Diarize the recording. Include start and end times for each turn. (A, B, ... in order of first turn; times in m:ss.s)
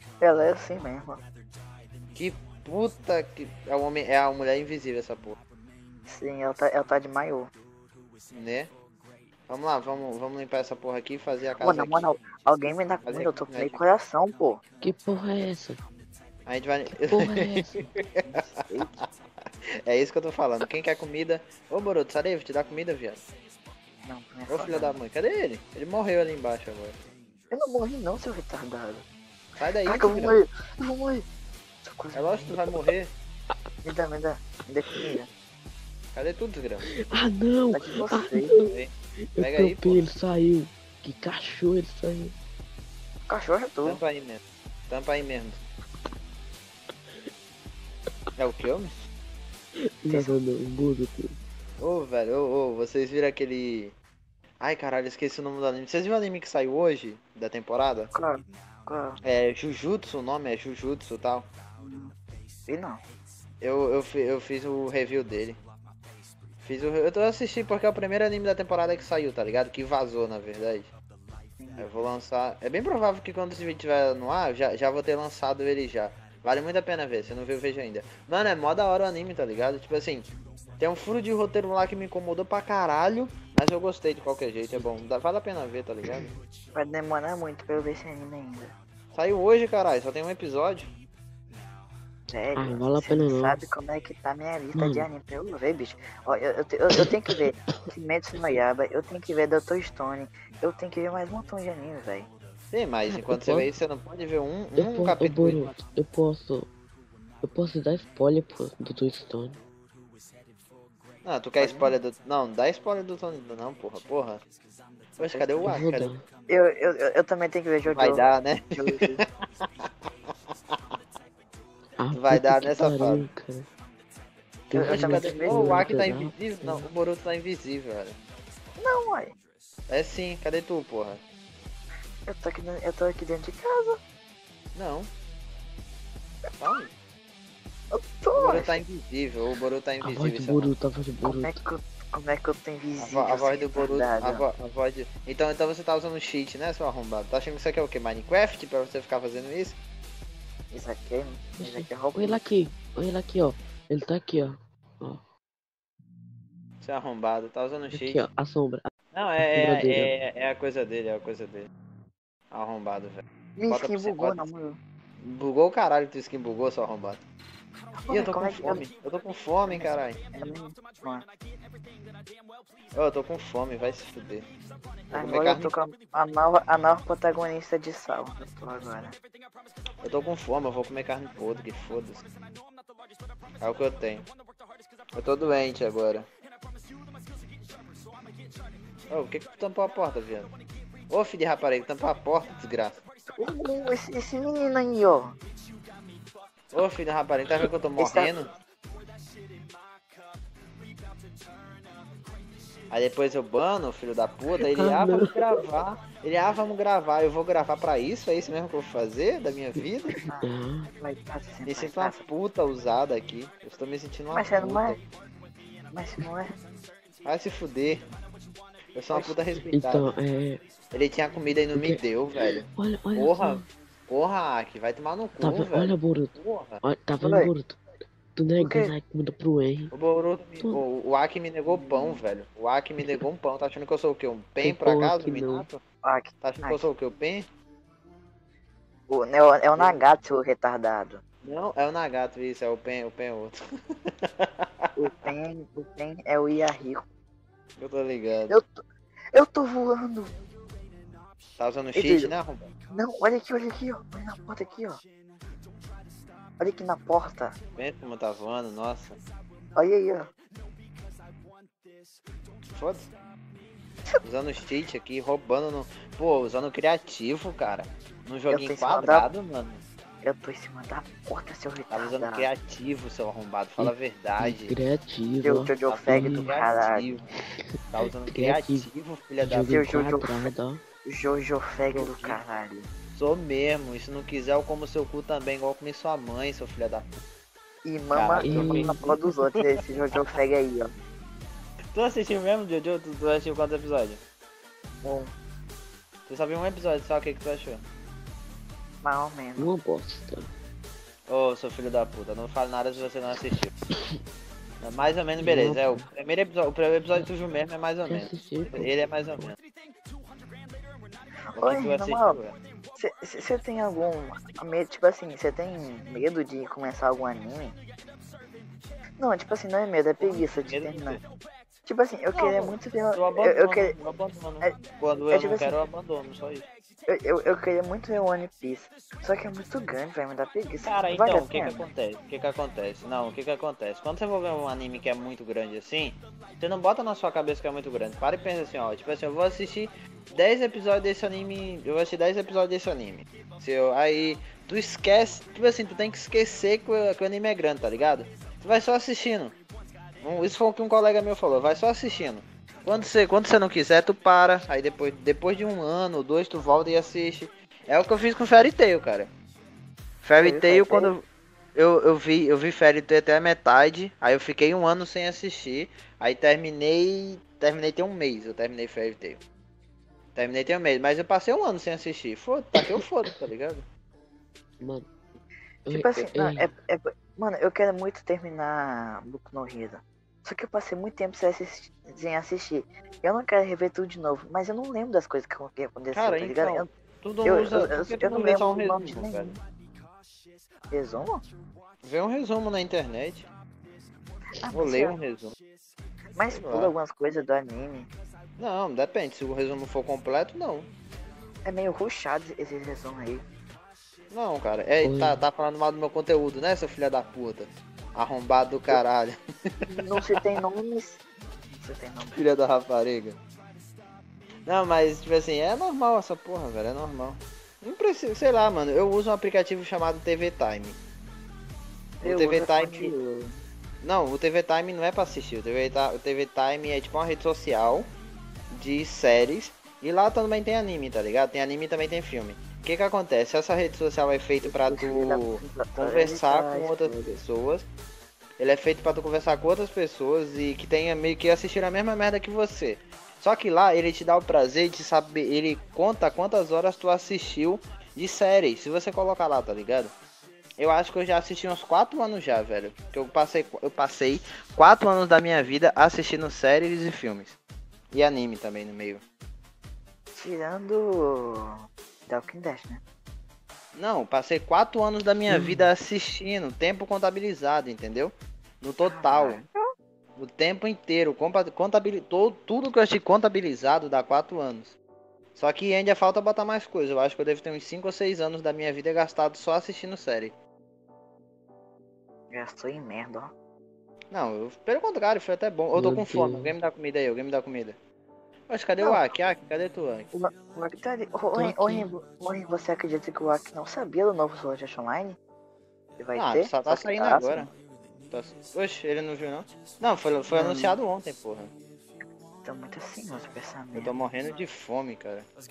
0:00.2-0:01.2 A
0:02.2-0:05.4 B
0:06.1-0:07.5 A
0:08.3-0:08.7 B
0:09.5-0:12.1 B
0:11.6-0:14.6 A
0:13.1-0:13.8 B
0:14.8-0:15.8 C
0:16.5-0:19.1 B
0:16.9-0:17.9 C
0:18.2-0:19.0 A
0:19.8-0:23.2 B
0:24.0-0:25.0 A
0:24.5-0:27.0 B
0:27.5-0:29.0 A
0:29.6-0:30.4 B
0:29.8-0:31.2 A
0:31.8-0:32.6 A
0:32.1-0:33.1 B
0:33.8-0:35.3 A
0:36.1-0:36.9 B
0:37.0-0:42.4 C
0:37.7-0:38.6 A
0:38.6-0:40.1 B
0:43.3-0:44.0 A
0:43.8-0:45.6 B
0:48.4-0:49.1 B
0:49.8-0:51.4 C
0:50.1-0:50.4 A
0:51.8-0:54.0 B
0:54.6-0:58.1 B
0:58.1-0:59.2 A
0:59.2-1:01.5 B
1:01.8-1:02.1 A
1:02.7-1:03.0 A
1:03.6-1:05.6 B
1:06.6-1:10.9 B
1:11.6-1:11.9 A
1:11.8-1:20.3 B
1:20.8-1:26.3 B
1:26.1-1:26.4 C
1:26.7-1:28.8 A
1:29.1-1:30.9 B
1:32.3-1:42.3 A
1:32.6-1:33.6 C
1:34.8-1:35.1 C
1:36.9-1:37.4 C
1:42.7-1:45.8 B
1:43.1-1:43.7 C
1:44.8-1:46.7 C
1:47.4-1:49.6 C
1:51.2-1:54.4 B
1:51.6-1:51.9 A
1:55.2-1:56.1 B
1:55.3-1:55.7 A
1:55.6-1:56.2 C
1:56.5-1:59.2 A
1:57.9-1:59.9 B
2:02.0-2:03.7 C
2:02.1-2:03.2 B
2:04.7-2:06.9 C
2:04.7-2:05.9 A
2:04.8-2:08.2 B
2:08.8-2:09.3 A
2:09.9-2:11.2 B
2:12.3-2:14.0 A
2:14.8-2:15.1 B
2:16.6-2:16.9 B
2:17.9-2:18.8 A
2:18.4-2:20.7 B
2:20.0-2:21.6 C
2:21.2-2:24.4 A
2:23.0-2:29.8 B
2:30.7-2:32.4 A
2:31.6-2:35.2 C
2:36.8-2:38.2 B
2:37.9-2:38.9 C
2:39.1-2:41.7 B
2:39.4-2:40.1 C
2:42.5-2:44.4 B
2:43.6-2:44.8 A
2:45.2-2:47.2 B
2:48.0-2:48.8 A
2:48.1-2:50.2 B
2:49.7-2:51.3 A
2:53.0-2:54.5 B
2:55.1-2:55.7 B
2:55.1-2:59.2 A
3:00.0-3:02.2 B
3:03.6-3:04.3 B
3:05.2-3:06.3 B
3:09.1-3:10.5 B
3:11.1-3:13.0 B
3:13.3-3:15.4 A
3:16.7-3:18.5 B
3:18.0-3:18.3 A
3:22.9-3:30.2 B
3:24.8-3:25.3 C
3:30.3-3:32.2 A
3:30.4-3:30.9 C
3:31.7-3:35.0 B
3:34.3-3:35.0 A
3:35.9-3:36.5 A
3:37.2-3:38.0 B
3:38.9-3:40.1 B
3:39.1-3:39.4 A
3:39.7-3:40.6 C
3:40.9-3:46.8 B
3:41.8-3:43.7 C
3:45.4-3:47.8 C
3:47.2-3:47.5 A
3:48.4-3:49.9 C
3:48.6-3:48.9 A
3:49.9-3:55.8 B
3:51.7-3:52.2 A
3:54.6-3:55.7 C
3:56.0-3:56.9 A
3:56.4-3:57.5 B
3:59.1-4:01.2 A
3:59.8-4:00.0 B
4:01.4-4:04.9 B
4:05.0-4:07.1 A
4:07.8-4:08.6 B
4:08.5-4:08.8 A
4:09.3-4:10.3 A
4:11.6-4:12.7 B
4:12.0-4:12.3 A
4:12.9-4:15.0 A
4:16.6-4:17.6 A
4:17.8-4:19.2 B
4:19.8-4:20.3 A
4:22.7-4:23.1 B
4:24.2-4:29.8 B
4:28.5-4:29.3 A
4:30.2-4:32.5 A
4:31.9-4:34.7 B
4:33.8-4:36.6 C
4:35.4-4:37.2 A
4:35.9-4:37.2 B
4:37.9-4:39.8 B
4:38.3-4:38.9 C
4:39.4-4:40.8 C
4:39.7-4:40.3 A
4:41.1-4:42.9 A
4:41.9-4:42.4 B
4:43.1-4:47.1 B
4:47.8-4:50.9 A
4:48.1-4:49.8 B
4:48.4-4:49.2 C
4:51.9-4:54.2 B
4:55.0-4:55.3 A
4:56.3-4:57.8 B
4:59.0-4:59.7 A
4:59.6-5:00.5 C
5:01.3-5:03.7 B
5:04.8-5:09.6 B
5:05.4-5:06.1 C
5:08.1-5:09.5 C
5:11.5-5:12.4 A
5:11.6-5:12.6 B
5:13.0-5:17.8 A
5:19.2-5:21.2 A
5:20.2-5:21.2 B
5:21.9-5:24.0 A
5:22.4-5:26.7 B
5:25.3-5:25.8 A
5:27.1-5:31.9 A
5:30.8-5:49.6 B
5:50.2-5:59.3 B
6:00.2-6:01.2 B
6:00.4-6:01.1 A
6:01.8-6:09.4 B
6:10.4-6:13.9 B
6:14.8-6:15.1 C
6:15.9-6:16.7 C
6:15.9-6:26.9 A
6:26.1-6:29.6 B
6:27.4-6:29.6 A
6:30.9-6:31.4 A
6:32.0-6:33.5 B
6:34.6-6:35.2 A
6:34.7-6:35.6 B
6:36.4-6:38.1 A
6:36.5-6:36.9 B
6:38.6-6:40.9 B
6:41.6-6:43.4 A
6:44.3-6:50.6 B
6:45.0-6:45.4 C
6:49.8-6:52.4 A
6:52.3-6:53.4 B
6:54.7-7:01.0 B
7:02.2-7:03.6 A
7:02.2-7:03.1 B
7:04.0-7:08.1 B
7:08.7-7:17.9 B
7:14.6-7:17.4 A
7:18.6-7:30.2 B
7:30.8-7:37.6 B
7:38.1-7:39.2 B
7:40.3-7:43.0 A
7:44.0-7:49.6 B
7:45.5-7:45.9 C
7:49.0-7:49.7 A
7:50.4-7:55.0 B
7:55.6-8:00.6 B
8:02.5-8:03.5 A
8:04.3-8:08.0 B
8:06.0-8:06.8 C
8:08.7-8:10.3 B
8:09.0-8:09.3 A
8:10.3-8:15.4 A
8:11.5-8:12.1 C
8:16.2-8:17.7 A
8:16.4-8:17.7 B
8:18.3-8:21.7 B
8:20.5-8:21.0 A
8:22.6-8:24.1 A
8:24.0-8:25.5 B